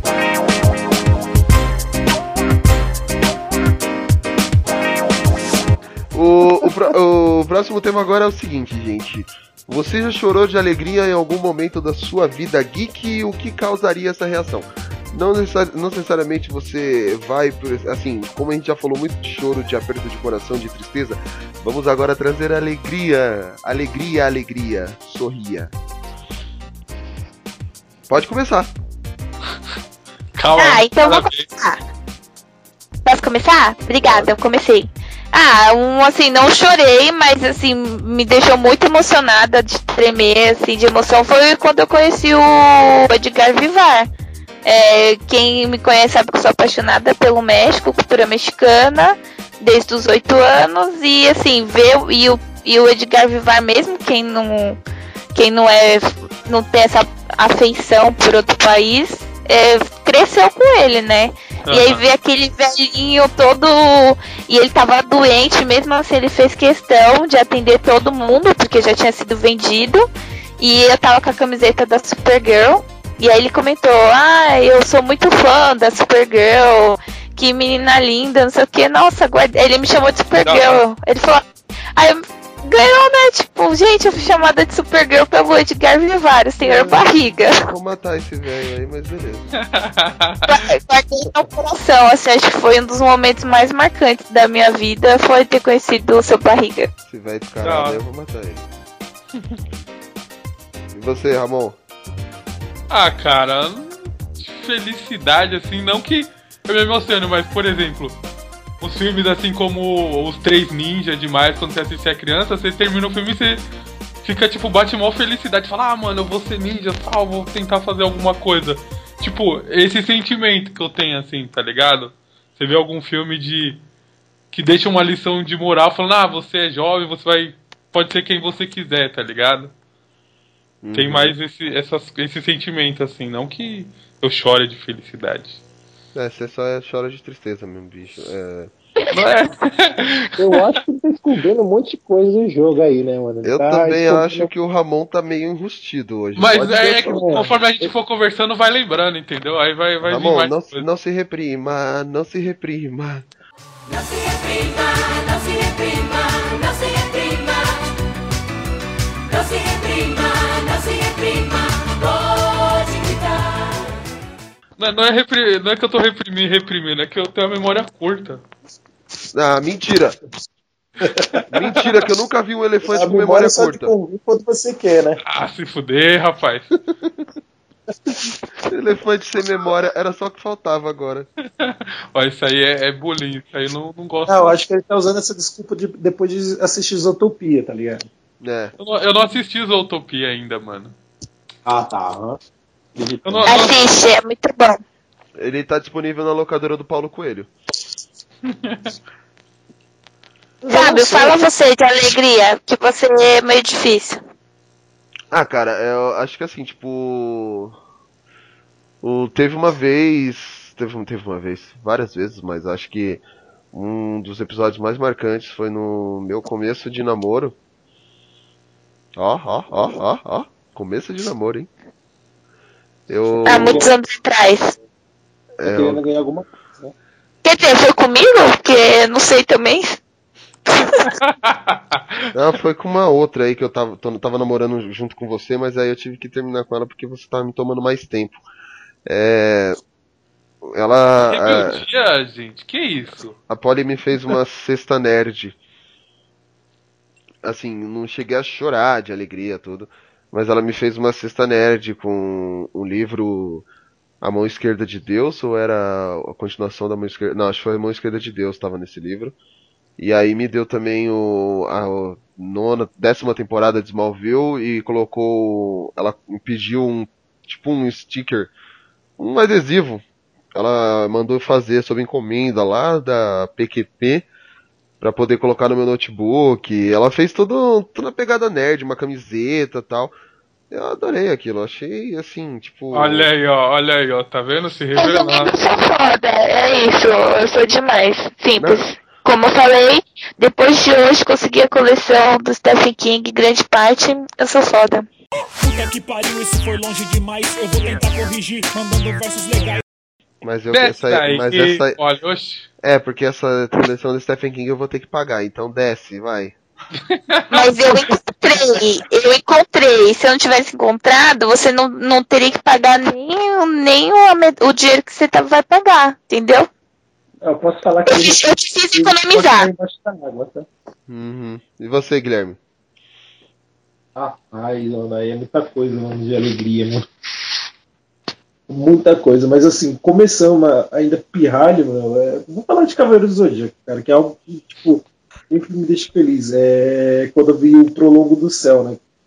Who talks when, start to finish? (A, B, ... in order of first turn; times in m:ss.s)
0:06.1-0:25.7 A
0:28.1-0:28.7 A
0:30.4-0:31.5 B
0:30.6-0:31.8 C
0:33.0-0:44.1 C
0:44.6-0:54.8 C
0:55.3-1:10.1 C
1:01.7-1:02.0 B
1:10.6-1:21.4 C
1:20.4-1:20.7 B
1:22.0-1:27.5 C
1:27.6-1:29.5 A
1:29.7-1:30.4 B
1:30.5-1:36.9 C
1:37.1-1:38.6 A
1:37.6-1:38.0 B
1:40.9-1:41.8 A
1:42.9-1:48.2 B
1:48.8-1:53.6 B
1:54.2-2:03.8 B
2:04.5-2:09.7 B
2:10.8-2:11.3 A
2:10.9-2:15.6 B
2:16.1-2:18.7 A
2:19.1-2:20.3 B
2:20.4-2:24.5 D
2:23.4-2:27.4 A
2:26.4-2:30.9 B
2:26.5-2:27.5 D
2:30.0-2:33.3 A
2:33.9-2:37.8 E
2:39.3-2:43.7 E
2:44.8-2:48.4 B
2:49.3-2:50.2 A
2:51.0-2:51.4 D
2:51.5-2:53.9 A
2:52.8-2:55.2 D
2:55.2-2:56.7 B
2:58.7-3:01.3 A
3:01.6-3:04.6 B
3:04.3-3:08.1 D
3:08.4-3:08.7 A
3:08.8-3:10.9 B
3:11.7-3:12.4 D
3:13.0-3:13.6 D
3:13.2-3:13.8 B
3:13.5-3:14.8 C
3:15.4-3:17.5 A
3:18.6-3:18.9 B
3:20.6-3:21.4 D
3:20.7-3:24.2 C
3:25.3-3:27.8 A
3:29.0-3:37.6 A
3:39.2-3:41.7 A
3:43.1-3:43.8 A
3:43.2-3:43.9 D
3:43.4-3:44.7 C
3:45.6-3:46.0 A
3:45.6-3:46.9 D
3:47.4-3:50.0 C
3:51.2-3:52.2 B
3:52.3-3:58.4 A
3:59.1-3:59.8 A
4:00.7-4:01.8 A
4:01.2-4:03.4 B
4:03.5-4:05.6 A
4:07.4-4:13.7 A
4:14.2-4:19.4 A
4:20.0-4:28.5 A
4:29.2-4:30.0 A
4:30.5-4:34.3 A
4:35.0-4:40.1 A
4:40.7-4:43.3 A
4:42.9-4:45.5 B
4:45.0-4:55.1 C
4:48.6-4:48.9 A
4:55.6-4:59.8 F
5:00.4-5:02.0 A
5:00.7-5:02.7 B
5:02.8-5:06.6 A
5:07.5-5:16.7 C
5:17.4-5:20.7 D
5:18.1-5:19.7 C
5:21.1-5:22.6 A
5:24.2-5:27.1 D
5:28.7-5:39.0 D